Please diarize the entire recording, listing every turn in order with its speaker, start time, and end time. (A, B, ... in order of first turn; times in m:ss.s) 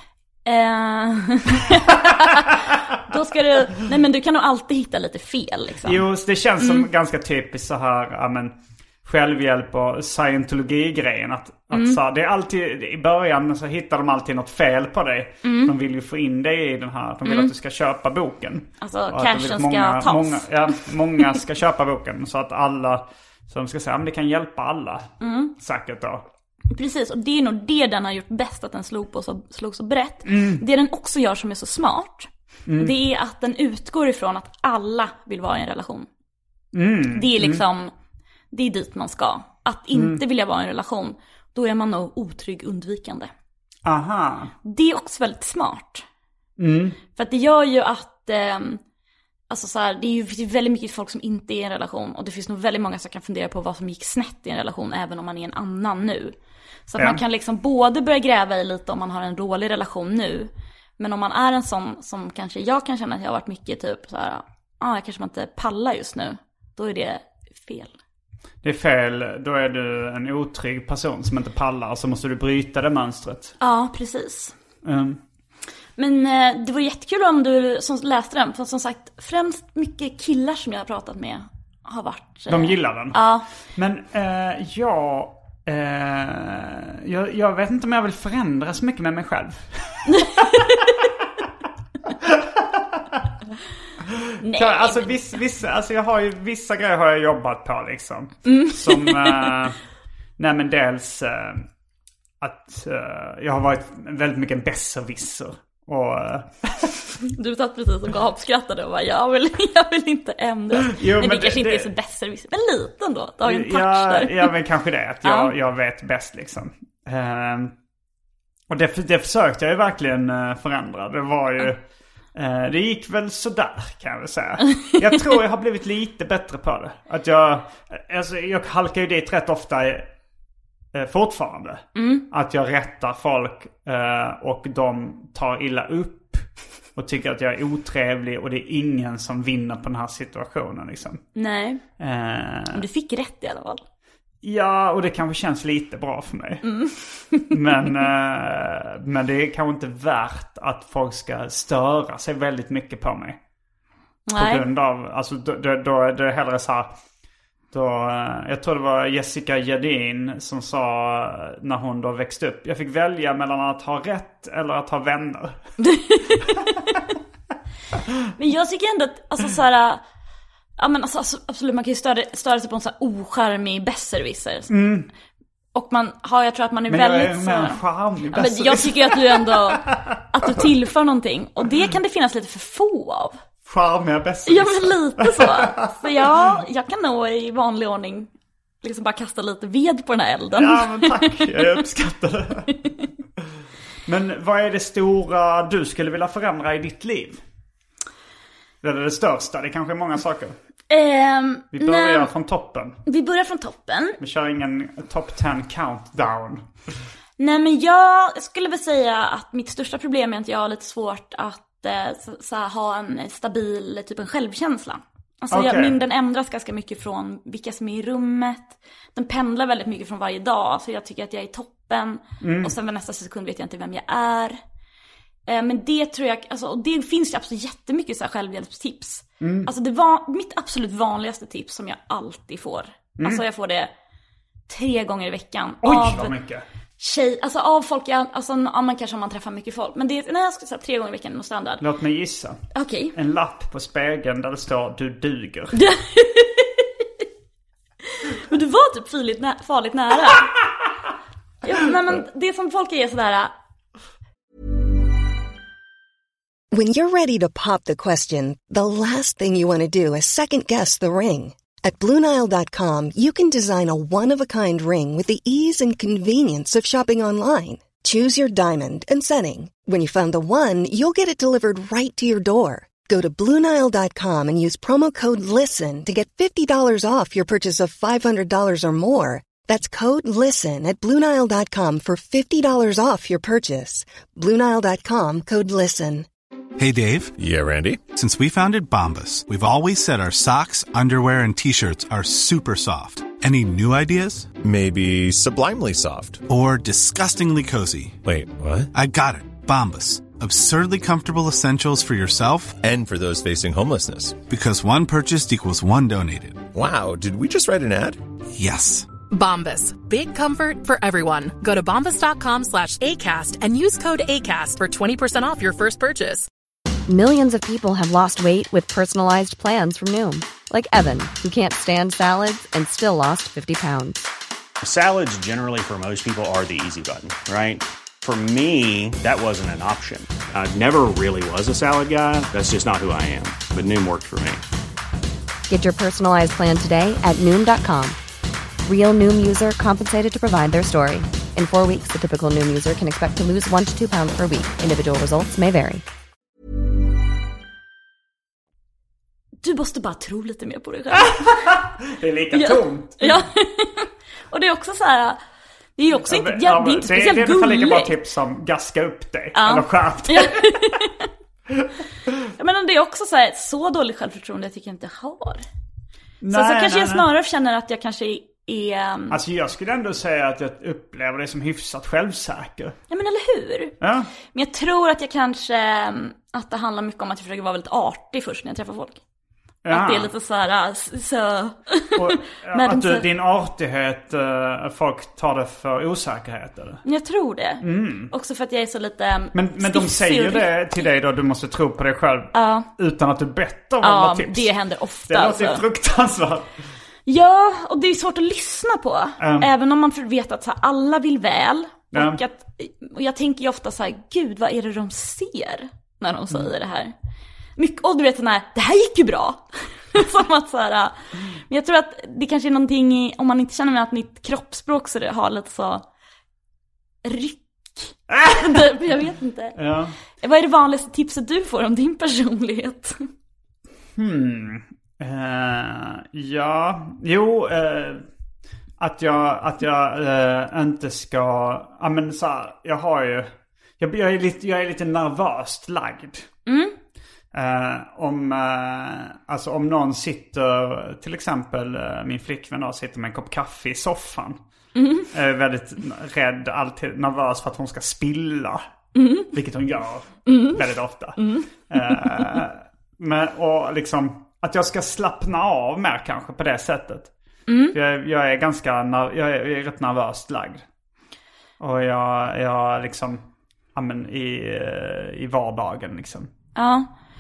0:00.4-0:06.0 A
0:05.8-0:26.2 B
0:06.6-0:06.9 A
0:11.7-0:12.0 A
0:15.4-0:15.7 A
0:17.2-0:17.5 A
0:18.8-0:20.8 A
0:25.2-0:25.5 A
0:26.7-0:36.1 A
0:30.2-0:30.6 B
0:32.7-0:32.9 B
0:36.7-0:37.6 B
0:37.1-0:37.9 A
0:38.5-0:43.3 A
0:39.9-0:40.2 B
0:43.8-0:44.5 B
0:44.6-0:46.0 A
0:46.6-0:47.0 B
0:47.1-0:48.8 A
0:49.5-0:56.4 A
0:56.9-1:07.9 A
1:08.6-1:13.5 B
1:13.6-1:14.5 A
1:14.8-1:15.2 B
1:16.0-1:23.4 A
1:22.5-1:30.8 B
1:30.1-1:30.9 A
1:32.2-1:33.0 B
1:34.3-1:39.8 B
1:34.4-1:35.2 A
1:38.4-1:39.6 A
1:40.4-1:41.6 B
1:42.4-1:47.0 B
1:47.2-1:54.5 A
1:50.8-1:51.9 B
1:53.4-1:57.7 B
1:55.2-1:55.5 A
1:58.7-2:01.8 B
2:02.3-2:10.1 B
2:10.9-2:21.2 B
2:12.0-2:12.2 A
2:21.4-2:21.8 A
2:22.0-2:22.8 B
2:22.7-2:23.8 A
2:24.4-2:26.6 B
2:26.6-2:27.5 A
2:27.5-2:33.4 B
2:34.3-2:34.6 A
2:34.4-2:36.9 B
2:37.7-2:45.6 B
2:45.8-2:47.0 A
2:48.4-2:50.0 A
2:50.8-2:54.7 A
2:54.7-2:55.1 B
2:55.7-2:57.8 A
2:56.9-3:00.2 B
2:58.3-3:03.4 A
3:03.6-3:06.6 B
3:04.5-3:08.3 A
3:08.8-3:11.6 A
3:10.5-3:12.8 B
3:14.0-3:17.4 B
3:18.8-3:20.5 B
3:20.9-3:22.3 A
3:21.7-3:23.0 B
3:23.0-3:24.2 A
3:24.2-3:26.6 B
3:27.4-3:44.6 A
3:35.5-3:36.0 B
3:42.4-3:42.7 B
3:45.5-3:53.9 A
3:49.4-3:49.7 B
3:54.7-3:56.3 A
3:55.8-3:56.6 B
3:57.0-4:01.8 A
4:01.8-4:02.6 B
4:02.7-4:03.1 A
4:03.1-4:05.8 B
4:05.7-4:07.0 A
4:08.2-4:10.5 A
4:11.6-4:13.5 A
4:16.7-4:46.3 C
4:46.8-4:47.3 D
4:47.4-4:48.0 E
4:48.1-4:54.5 D
4:54.6-4:56.4 E
4:56.5-4:58.2 D
4:58.2-4:58.9 E
4:58.9-5:02.8 D
5:02.8-5:04.4 E
5:04.5-5:06.6 D
5:06.7-5:08.2 E
5:08.5-5:09.1 D
5:09.3-5:16.5 F
5:17.1-5:24.3 G
5:24.8-5:34.6 H
5:35.7-5:38.2 G
5:38.8-5:46.0 G
5:49.6-5:51.6 A
5:51.2-5:53.3 B
5:52.5-5:55.4 A
5:56.0-5:58.1 A
5:56.2-6:01.0 B
5:59.5-6:01.2 A
6:02.6-6:05.6 A
6:06.4-6:07.3 B
6:06.5-6:09.4 A
6:09.3-6:13.0 B
6:13.1-6:14.0 A
6:14.0-6:14.3 B
6:14.5-6:19.2 A
6:19.8-6:20.3 B
6:19.9-6:23.2 A
6:22.1-6:27.0 B
6:27.0-6:30.7 A
6:27.8-6:28.3 B
6:29.5-6:34.7 B
6:32.5-6:32.9 A
6:34.0-6:35.8 A
6:35.3-6:36.7 B
6:37.3-6:47.1 A
6:39.4-6:39.7 B
6:42.1-6:42.4 B
6:47.8-6:56.0 A
6:57.2-6:59.8 A
6:58.3-6:59.0 B
6:59.8-7:00.2 B
7:00.4-7:03.2 A
7:04.2-7:08.2 B
7:09.0-7:16.5 B
7:16.6-7:17.0 A
7:17.5-7:24.6 B
7:25.0-7:25.3 A
7:25.3-7:28.8 B
7:29.1-7:29.5 A
7:29.5-7:37.3 B
7:30.5-7:30.8 A
7:31.4-7:32.4 A
7:37.7-7:38.0 A
7:37.9-7:40.8 B
7:41.8-7:43.4 B
7:43.9-7:46.5 B
7:46.7-7:47.1 A